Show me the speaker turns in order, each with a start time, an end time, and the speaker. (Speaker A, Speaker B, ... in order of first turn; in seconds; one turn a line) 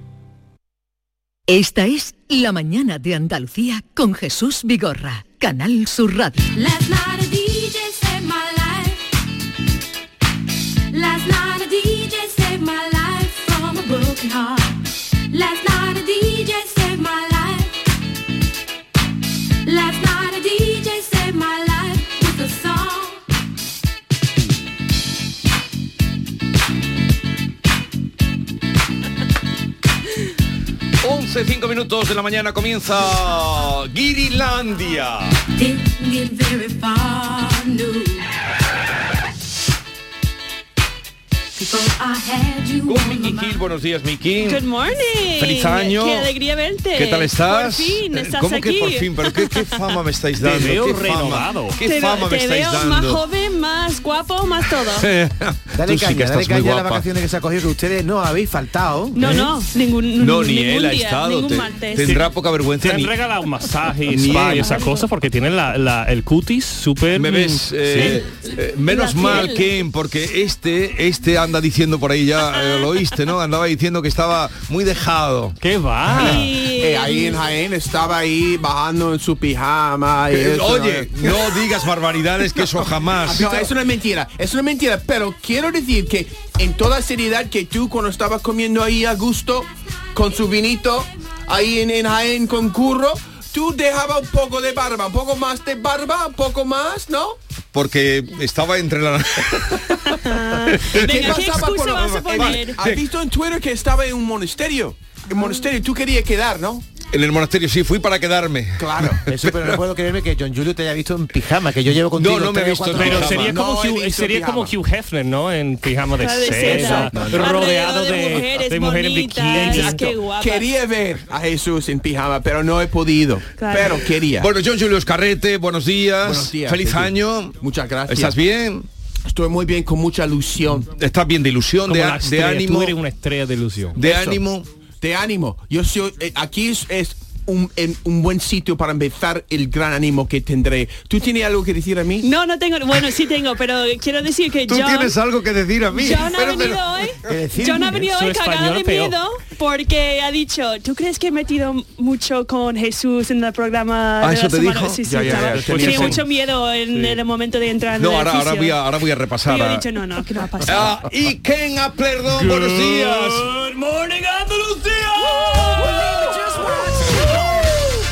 Speaker A: 1.5-6.4
Speaker B: 6.5-9.1
Speaker B: 10.9-14.8
Speaker B: 15.3-17.8
Speaker B: 19.6-23.2
Speaker C: 31.0-35.4
Speaker B: 35.5-38.2
Speaker B: 41.5-43.6
Speaker C: 42.8-44.6
Speaker D: 44.4-49.9
Speaker C: 45.4-46.3
Speaker C: 46.9-53.2
Speaker E: 50.4-51.8
Speaker D: 51.8-55.1
Speaker C: 54.8-57.1
Speaker F: 55.7-59.2
Speaker D: 59.1-62.3
Speaker E: 59.2-59.5
Speaker C: 60.2-63.1
Speaker E: 62.0-62.2
Speaker E: 62.8-68.2
Speaker C: 64.0-64.8
Speaker C: 67.1-75.6
Speaker D: 68.8-69.7
Speaker D: 72.5-72.9
Speaker E: 75.6-76.5
Speaker D: 76.1-77.4
Speaker G: 76.7-81.5
Speaker C: 80.3-83.7
Speaker G: 83.2-97.4
Speaker C: 97.7-103.1
Speaker D: 100.0-102.8
Speaker G: 101.0-106.9
Speaker C: 107.1-109.8
Speaker G: 108.8-109.2
Speaker F: 109.2-113.4
Speaker C: 112.1-113.6
Speaker E: 112.9-120.2
Speaker G: 113.2-114.7
Speaker D: 116.2-120.7
Speaker G: 116.7-117.5
Speaker G: 120.4-124.5
Speaker D: 123.6-124.0
Speaker C: 124.3-128.8
Speaker G: 126.2-128.4
Speaker G: 129.2-130.9
Speaker C: 130.9-132.9
Speaker E: 131.9-134.0
Speaker C: 133.9-134.7
Speaker G: 134.0-134.4
Speaker G: 135.0-142.3
Speaker D: 142.2-145.2
Speaker C: 144.7-146.8
Speaker D: 145.9-158.8
Speaker F: 147.3-148.1
Speaker E: 148.1-149.2
Speaker C: 154.2-155.0
Speaker G: 155.0-156.2
Speaker E: 155.3-156.2
Speaker E: 156.9-157.2
Speaker C: 158.0-159.8
Speaker D: 159.4-161.0
Speaker C: 160.6-163.5
Speaker E: 162.3-166.6
Speaker C: 165.5-165.9